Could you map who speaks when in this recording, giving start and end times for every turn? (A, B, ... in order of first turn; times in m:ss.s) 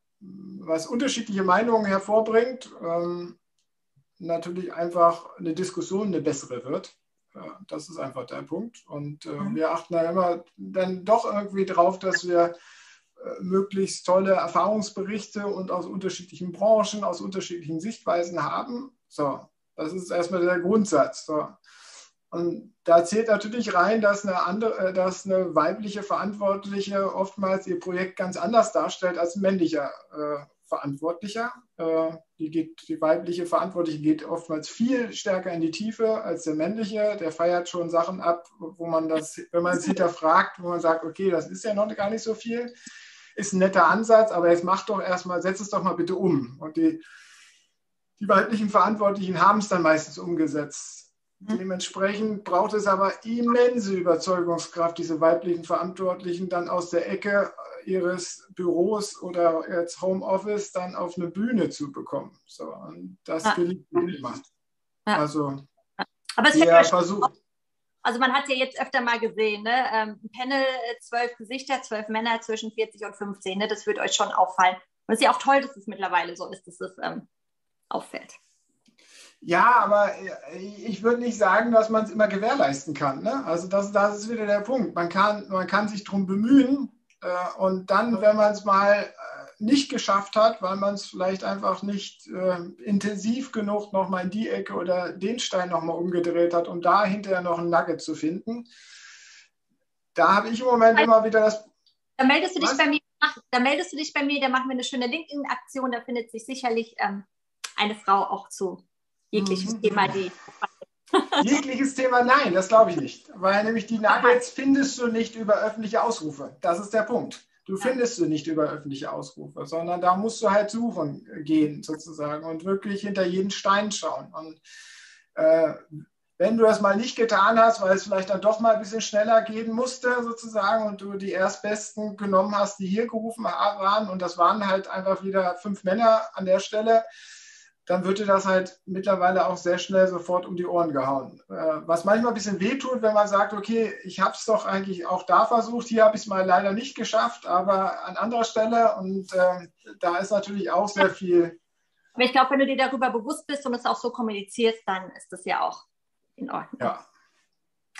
0:00.2-0:03.4 A
0:04.2-0:12.5 A
0:13.2-0:21.6 A
0:22.3-0:42.7 A
0:43.3-0:47.0 A
0:48.2-1:04.4 A
1:05.1-1:05.6 A
1:06.0-1:06.9 B
1:06.5-1:07.3 A
1:08.0-1:17.2 B
1:17.9-1:18.4 B
1:19.4-1:38.7 A
1:40.1-1:41.7 A
1:42.2-1:47.2 B
1:42.6-1:42.8 A
1:47.8-1:51.4 B
1:49.3-1:50.2 A
1:51.4-2:04.6 A
1:54.1-1:54.4 B
2:05.3-2:17.0 A
2:17.8-2:31.6 A
2:32.2-2:35.8 B
2:36.4-2:36.8 B